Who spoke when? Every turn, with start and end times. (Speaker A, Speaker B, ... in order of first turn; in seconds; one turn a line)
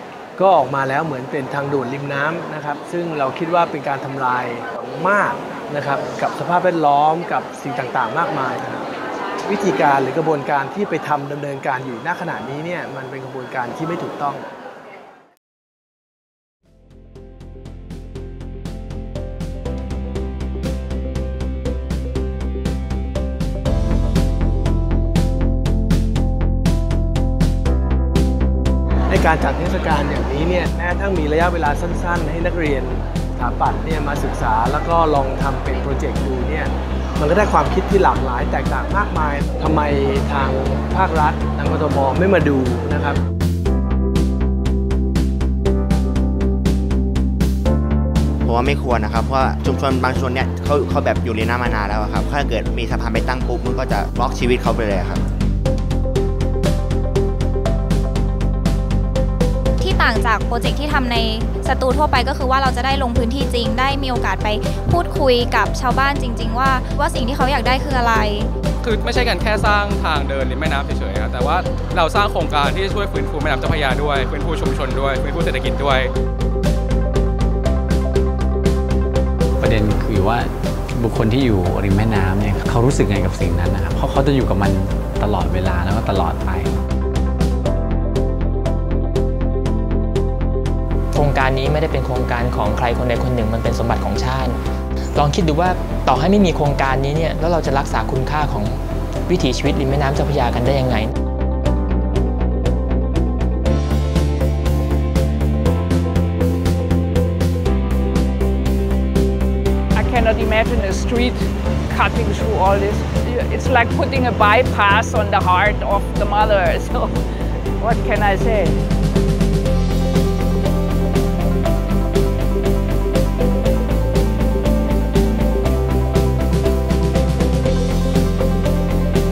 Speaker A: 0.4-8.9
Speaker A: 9.4-14.5
Speaker A: 29.1-43.2
Speaker B: 48.4-55.2
Speaker C: 59.8-68.5
Speaker D: 68.8-76.1
Speaker E: 79.6-86.8
Speaker F: 91.1-94.6
Speaker F: 95.1-101.1
Speaker G: 110.0-117.2
Speaker G: 117.8-118.8